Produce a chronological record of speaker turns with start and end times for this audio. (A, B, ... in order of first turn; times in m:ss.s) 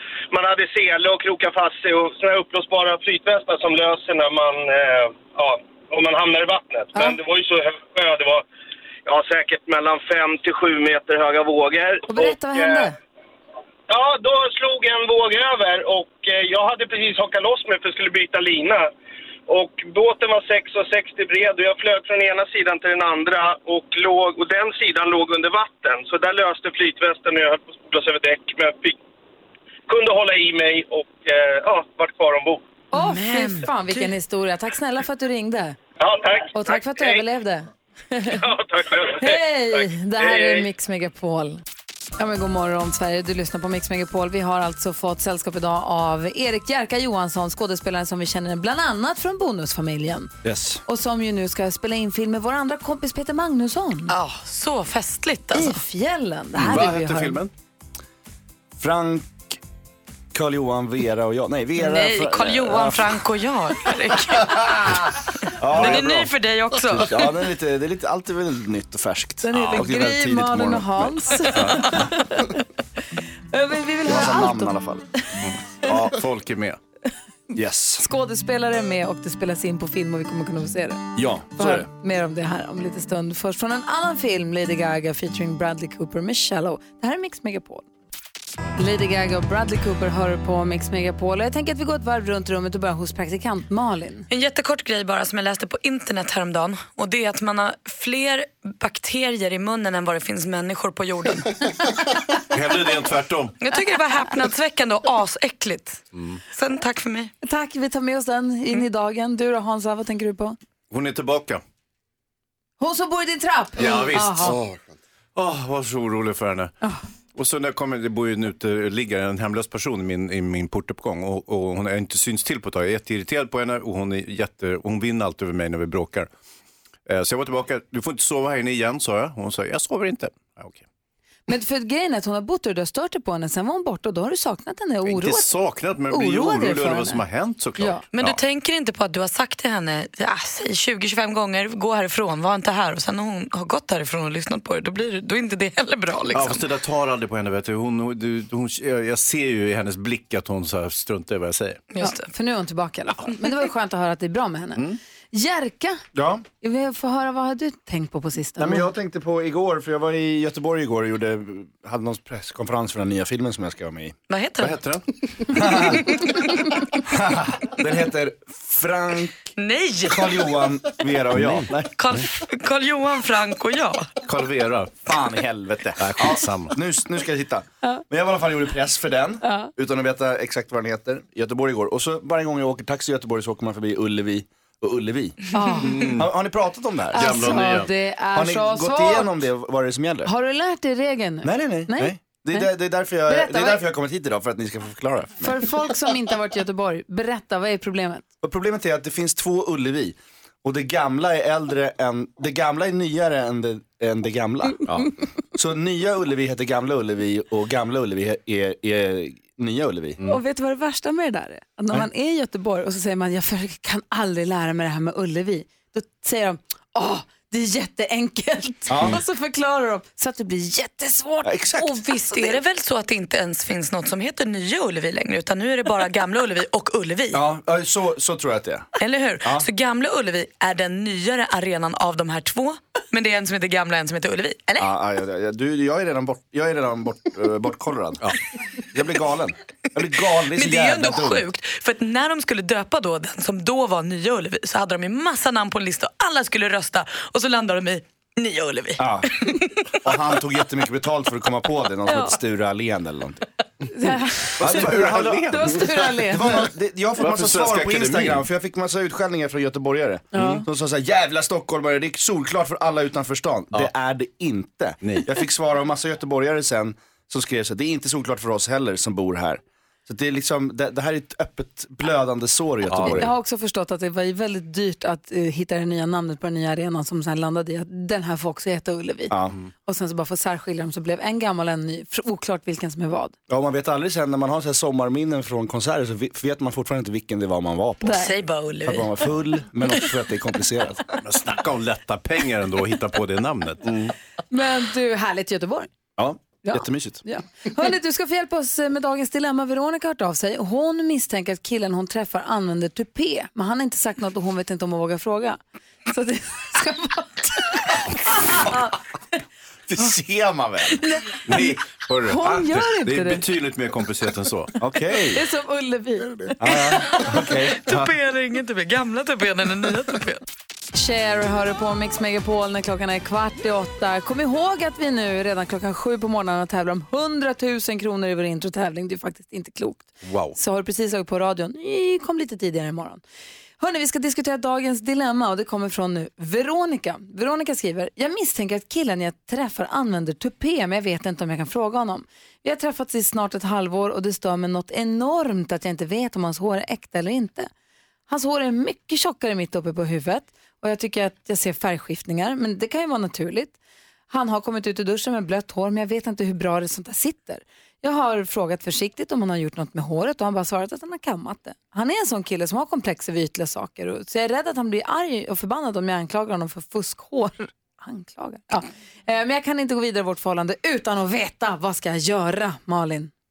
0:00.3-0:08.4 A
0:09.0-0:12.9 A
0:12.1-0:12.9 B
0:13.9-0:18.9 A
0:19.5-0:29.0 A
0:29.9-0:32.6 A
0:32.9-0:35.8 B
0:32.9-0:34.1 C
0:36.0-0:37.2 A
0:36.5-0:38.5 B
0:38.4-0:40.6 A
0:39.2-0:41.6 B
0:42.2-0:50.3 B
0:50.4-0:50.8 D
0:50.8-0:54.1 B
0:54.1-0:55.8 C
0:55.5-0:57.4 B
0:56.5-0:57.5 E
0:58.8-0:59.6 D
1:00.3-1:03.1 D
1:01.8-1:05.0 C
1:05.6-1:06.3 D
1:05.6-1:07.3 C
1:06.9-1:11.7 D
1:09.4-1:12.6 B
1:13.5-1:14.7 B
1:14.0-1:15.0 D
1:15.4-1:16.8 E
1:17.5-1:18.0 D
1:18.0-1:21.0 B
1:21.2-1:21.9 D
1:21.6-1:27.8 B
1:28.8-1:34.3 B
1:34.3-1:41.8 C
1:42.5-1:43.6 E
1:43.6-1:47.3 C
1:46.1-1:46.4 E
1:47.4-1:50.6 B
1:50.9-1:51.6 E
1:52.8-1:54.6 B
1:53.8-1:54.6 E
1:55.3-1:56.7 E
1:57.3-2:06.3 E
2:07.0-2:10.8 E
2:11.5-2:15.5 B
2:15.0-2:18.4 E
2:16.1-2:17.2 B
2:17.8-2:18.0 B
2:18.1-2:26.6 C
2:26.3-2:31.8 E
2:31.9-2:32.2 C
2:32.0-2:36.0 B
2:36.1-2:36.4 D
2:36.6-2:38.8 B
2:38.6-2:44.2 D
2:44.3-2:44.8 C
2:44.6-2:45.0 E
2:45.5-2:46.1 D
2:45.9-2:46.7 C
2:47.1-2:49.4 D
2:49.6-2:50.5 C
2:50.1-2:51.9 D
2:51.3-2:52.2 E
2:52.0-2:54.1 C
2:54.2-2:55.1 E
2:55.0-3:05.4 D
2:56.0-2:56.8 E
2:59.4-2:59.7 B
3:05.5-3:05.9 B
3:05.8-3:06.3 E
3:06.0-3:07.6 D
3:07.1-3:09.3 B
3:07.1-3:07.9 E
3:08.3-3:10.3 D
3:10.2-3:12.7 B
3:11.4-3:15.6 D
3:13.3-3:13.8 B
3:15.4-3:18.2 B
3:18.4-3:25.0 D
3:25.5-3:30.2 D
3:30.3-3:42.6 B
3:38.9-3:39.2 D
3:41.4-3:41.9 D
3:42.0-3:47.4 C
3:47.3-3:48.9 D
3:49.0-3:54.9 C
3:54.8-3:58.3 D
3:58.9-4:01.4 D
4:00.5-4:09.7 C
4:09.0-4:09.3 D
4:10.0-4:13.4 D
4:13.9-4:16.5 B
4:14.6-4:33.3 D
4:14.6-4:16.2 E
4:17.2-4:18.5 E
4:20.3-4:20.6 B
4:20.4-4:20.6 E
4:25.0-4:25.3 E
4:32.8-4:33.3 E
4:33.0-4:39.3 B
4:39.3-4:39.6 D
4:39.8-4:43.3 B
4:43.5-4:48.2 D
4:48.0-4:49.1 C
4:48.8-4:51.0 D
4:51.2-4:54.1 E
4:54.5-4:55.9 B
4:56.2-4:57.2 D
4:56.6-5:07.9 B
5:08.6-5:08.9 B
5:09.9-5:11.0 D
5:11.0-5:13.4 B
5:11.4-5:14.7 E
5:14.8-5:15.4 D
5:15.3-5:17.2 B
5:16.6-5:18.1 D
5:17.1-5:20.4 C
5:20.9-5:33.2 B
5:30.2-5:30.6 E
5:33.8-5:47.7 B
5:48.3-5:53.8 B
5:54.3-6:13.3 B